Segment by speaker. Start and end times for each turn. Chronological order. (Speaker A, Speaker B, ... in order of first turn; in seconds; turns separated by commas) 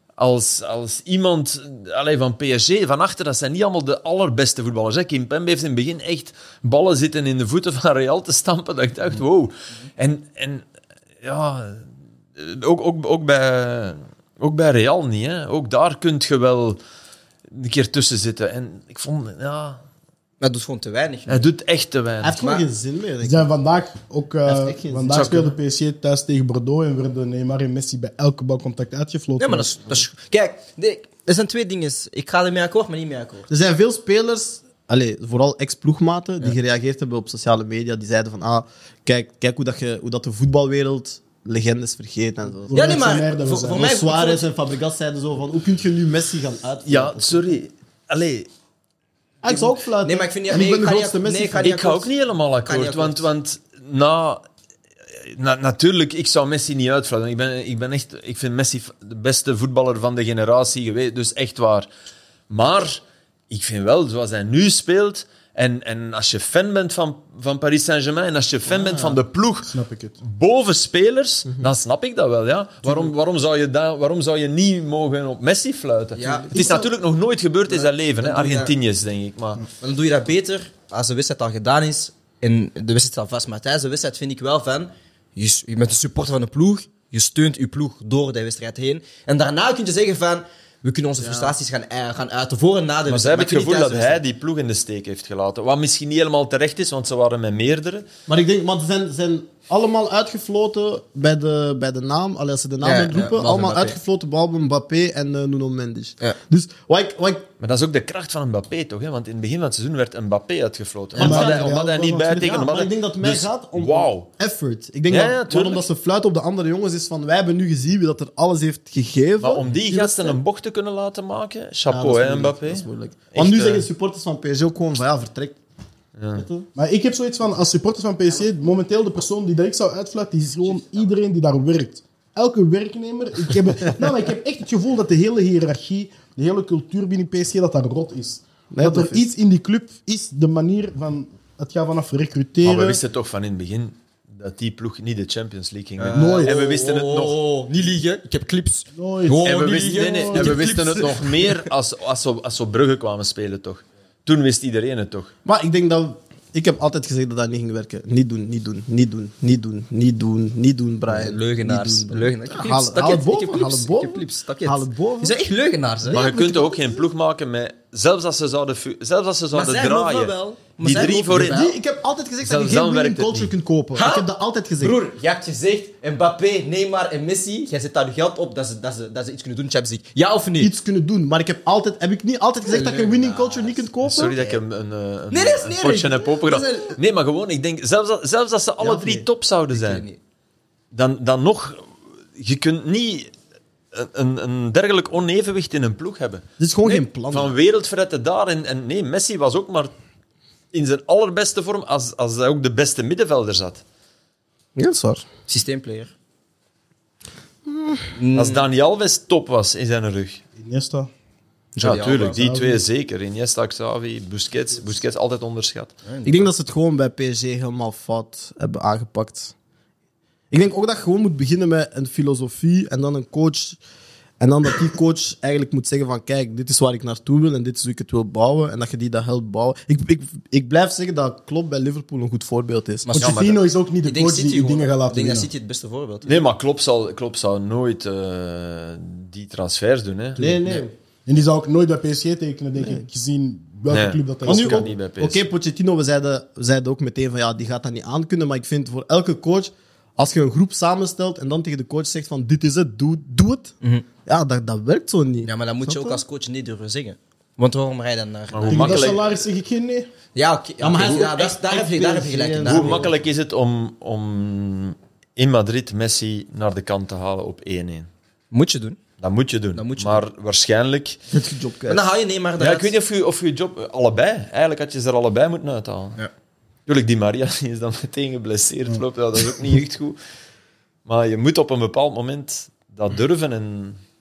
Speaker A: 0.2-10.6, Speaker A: 11.2-11.8, Speaker A: 12.4-16.8, Speaker A: 17.5-19.8, Speaker B: 20.4-21.5, Speaker A: 21.3-22.4, Speaker C: 22.2-23.5, Speaker B: 22.4-22.6, Speaker D: 23.2-30.0, Speaker C: 24.5-25.5, Speaker A: 25.1-25.5, Speaker B: 29.4-33.5, Speaker C: 33.5-42.9, Speaker D: 42.7-43.9, Speaker B: 42.7-44.5, Speaker C: 43.7-47.5, Speaker A: 46.9-48.5, Speaker C: 49.4-51.8, Speaker B: 49.5-52.1, Speaker A: 51.6-54.4, Speaker B: 52.6-53.3, Speaker A: 55.2-61.9, Speaker A: 62.5-79.6, Speaker B: 68.7-69.2, Speaker D: 69.7-70.2, Speaker B: 76.2-76.6, Speaker D: 76.6-76.8, Speaker B: 77.7-78.7, Speaker B: 79.8-94.2, Speaker C: 91.2-91.5, Speaker A: 93.1-98.1, Speaker C: 98.3-107.5, Speaker B: 102.8-104.0, Speaker A: 107.6-114.3, Speaker C: 111.2-111.7, Speaker D: 111.2-112.6, Speaker C: 112.4-120.4, Speaker A: 115.1-115.9, Speaker A: 119.4-123.9, Speaker C: 121.9-125.6, Speaker A: 126.2-126.4, Speaker C: 126.3-126.7, Speaker D: 126.8-143.0, Speaker C: 138.7-139.2, Speaker A: 142.6-147.4, Speaker B: 146.0-151.7, Speaker D: 146.1-146.6, Speaker D: 149.0-149.6, Speaker A: 149.4-155.3, Speaker C: 155.4-165.4, Speaker B: 161.1-166.3, Speaker C: 166.1-167.0, Speaker A: 166.1-171.7, Speaker B: 169.5-171.8, Speaker C: 171.3-175.0, Speaker A: 172.4-173.5, Speaker B: 174.0-174.3, Speaker B: 174.8-180.7, Speaker C: 180.6-184.3, Speaker B: 182.7-184.6, Speaker A: 184.1-190.1, Speaker B: 185.3-187.0, Speaker C: 188.8-189.2, Speaker B: 189.7-190.2, Speaker A: 190.9-193.3, Speaker A: 193.9-196.4, Speaker C: 196.6-197.5, Speaker A: 197.3-199.9, Speaker A: 200.7-203.8, Speaker C: 204.8-205.2, Speaker B: 205.5-206.1, Speaker C: 207.7-208.1, Speaker B: 208.2-208.7, Speaker A: 208.3-210.4, Speaker D: 210.6-211.1, Speaker B: 211.8-212.4, Speaker A: 211.8-215.9, Speaker D: 212.3-212.8, Speaker B: 216.1-216.5, Speaker C: 216.2-219.5, Speaker C: 220.5-223.8, Speaker C: 224.4-233.1, Speaker B: 233.1-233.4, Speaker D: 233.2-235.5, Speaker A: 233.2-233.6, Speaker B: 234.0-236.4, Speaker A: 236.2-240.4, Speaker C: 240.4-240.9, Speaker D: 241.3-244.9, Speaker A: 243.9-245.5, Speaker C: 244.5-253.8, Speaker C: 254.3-256.2, Speaker B: 255.4-259.2, Speaker A: 258.5-259.3, Speaker D: 258.7-260.1, Speaker B: 260.4-263.1, Speaker C: 260.8-263.1, Speaker A: 262.6-268.1, Speaker B: 268.5-269.0, Speaker A: 269.2-271.2, Speaker B: 269.8-270.2, Speaker C: 271.3-272.1, Speaker B: 271.9-272.9, Speaker A: 272.6-276.2, Speaker A: 276.9-280.2, Speaker A: 281.1-284.0